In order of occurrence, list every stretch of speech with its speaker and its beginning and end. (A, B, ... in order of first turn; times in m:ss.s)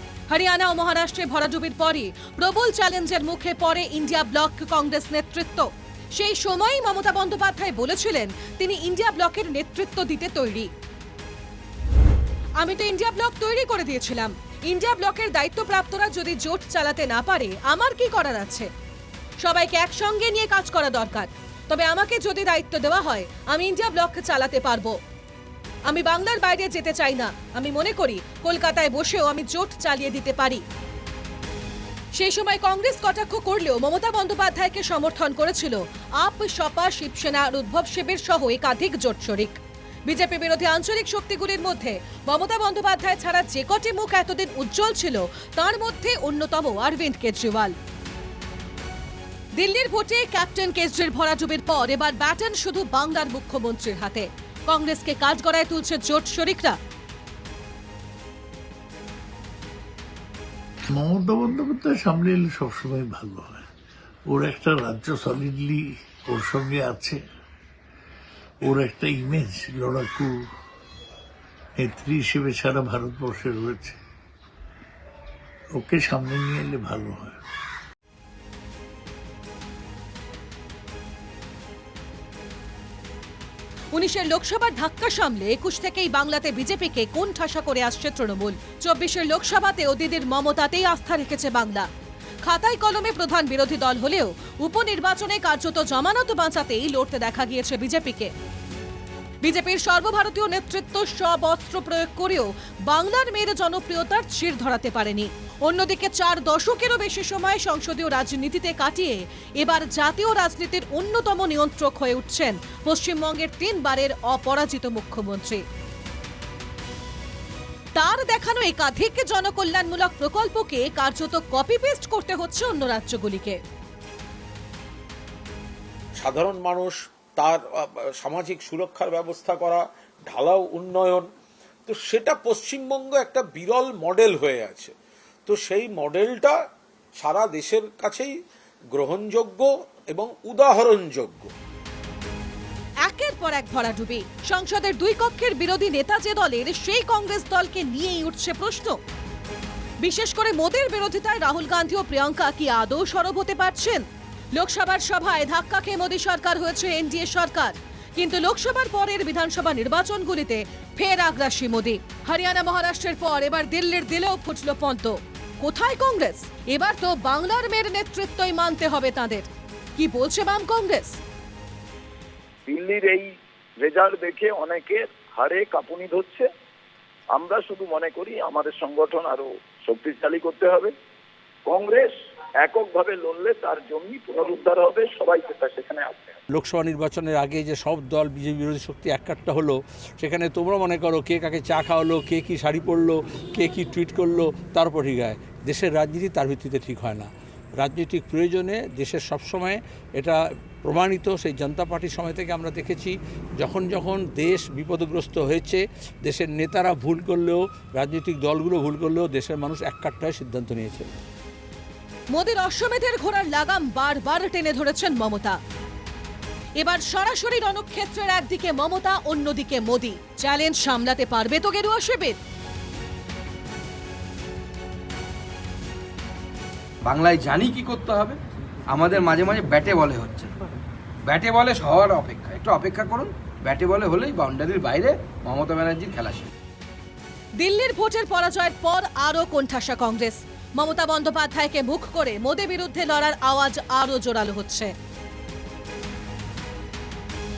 0:00.3-0:10.7 A
0:12.6-0:18.7 A
0:19.4-0:25.0 A
0:25.9-0:30.6 A
0:32.1-0:47.7 A
0:49.6-0:56.8 A
1:00.9-1:03.7 B
1:04.3-1:07.2 B
1:08.6-1:10.5 B
1:11.8-1:14.0 B
1:15.8-1:17.4 B
1:23.9-1:31.9 A
1:32.4-1:38.3 A
1:39.4-1:55.6 A
1:58.0-2:03.6 A
2:06.2-2:07.6 C
2:08.2-2:11.2 C
2:11.9-2:14.9 C
2:15.4-2:16.6 C
2:17.2-2:18.3 C
2:18.9-2:21.5 C
2:23.0-2:29.0 A
2:30.0-2:34.0 A
2:34.5-2:51.2 A
2:52.7-2:56.5 D
2:57.3-3:00.9 D
3:01.6-3:06.4 D
3:06.5-3:31.1 E
3:32.3-3:35.6 A
3:36.8-3:42.4 A
3:47.1-3:48.4 F
3:48.9-3:50.5 F
3:51.3-3:56.5 F
3:57.6-4:04.9 A